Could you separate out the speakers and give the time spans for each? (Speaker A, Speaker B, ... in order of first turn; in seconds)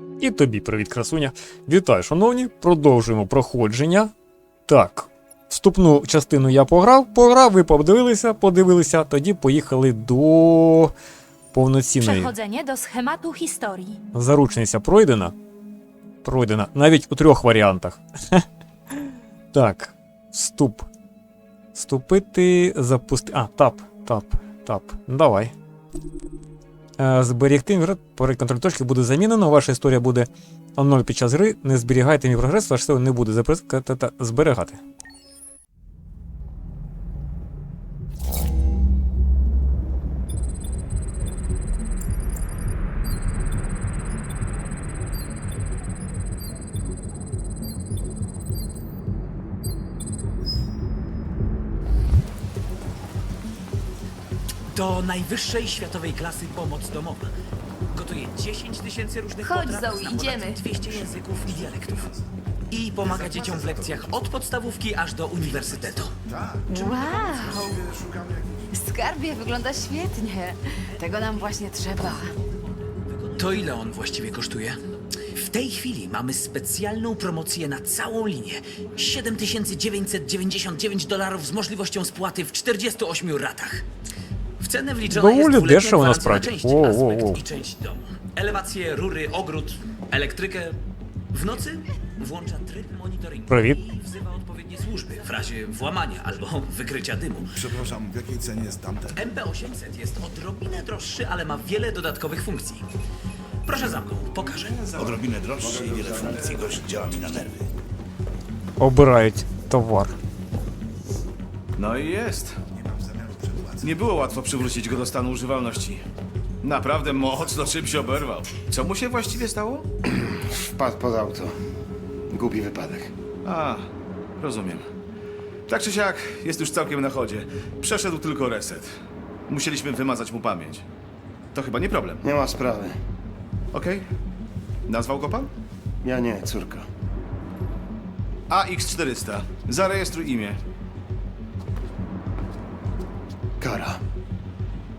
Speaker A: 0.2-4.1, 4.7-10.9, 11.5-12.3, 14.1-15.3, 16.2-20.9, 21.7-25.5, 27.0-34.8, 85.1-87.4, 93.5-93.8, 108.8-110.2
Speaker B: 12.0-14.0
Speaker C: 54.7-57.3, 57.9-62.1, 62.7-66.2, 73.1-83.8, 84.6-90.8, 91.3-97.5, 99.1-102.9, 103.6-105.0
Speaker D: 59.4-60.6, 66.7-67.9, 68.7-72.3
Speaker E: 67.9-68.5, 97.6-99.2, 105.0-107.6, 113.3-113.8
Speaker F: 105.8-106.4, 120.1-121.5, 122.3-123.1, 132.2-133.0, 136.0-136.8, 143.6-144.0
Speaker G: 111.8-112.6, 113.8-116.0, 116.6-119.9, 123.4-124.9, 125.7-128.9, 129.5-130.8, 131.5-132.2, 133.7-134.1, 134.9-135.5, 138.5-140.6